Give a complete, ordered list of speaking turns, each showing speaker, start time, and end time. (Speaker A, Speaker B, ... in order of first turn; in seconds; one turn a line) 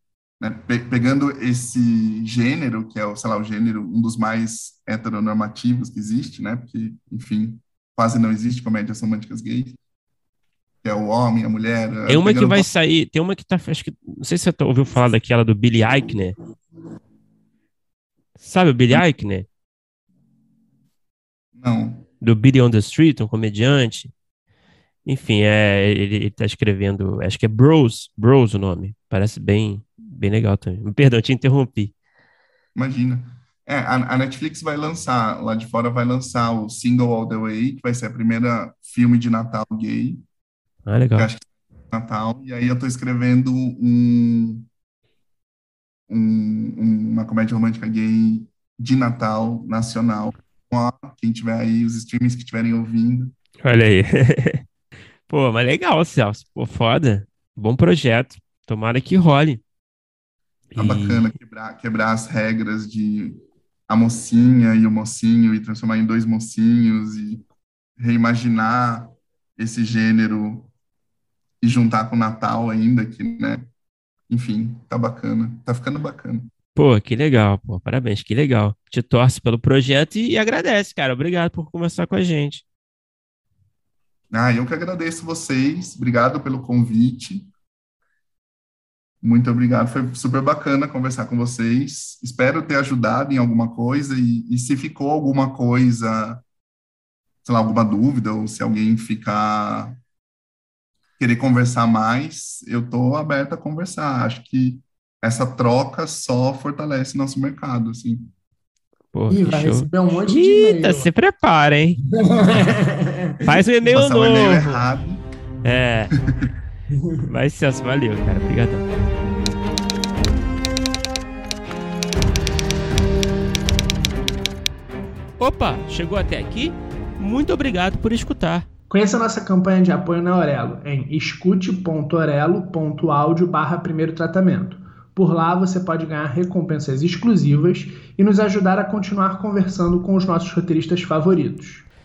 Speaker A: 0.4-9.8
Speaker A: 10.8-12.7
Speaker B: 12.1-16.3
Speaker B: 18.4-19.5
Speaker A: 21.6-22.1
Speaker B: 22.2-24.1
Speaker B: 25.1-31.9
Speaker A: 32.7-40.2
Speaker B: 40.9-41.3
Speaker A: 41.1-44.7
Speaker A: 46.1-53.4
Speaker B: 53.6-54.6
Speaker B: 55.3-59.6
Speaker B: 60.7-61.3
Speaker A: 60.8-67.5
Speaker A: 68.0-70.7
Speaker A: 71.6-73.7
Speaker A: 74.3-76.5
Speaker B: 76.7-82.6
Speaker A: 84.3-87.5
Speaker A: 89.2-96.4
Speaker A: 97.4-100.0
Speaker A: 101.2-108.3
Speaker B: 109.1-112.0
Speaker C: 109.3-111.1
Speaker C: 112.1-113.4
Speaker B: 113.4-114.8
Speaker A: 113.8-115.2
Speaker B: 115.6-116.1
Speaker A: 116.2-116.5
Speaker C: 117.0-117.2
Speaker B: 117.2-118.9
Speaker B: 125.4-128.7
Speaker C: 128.9-141.8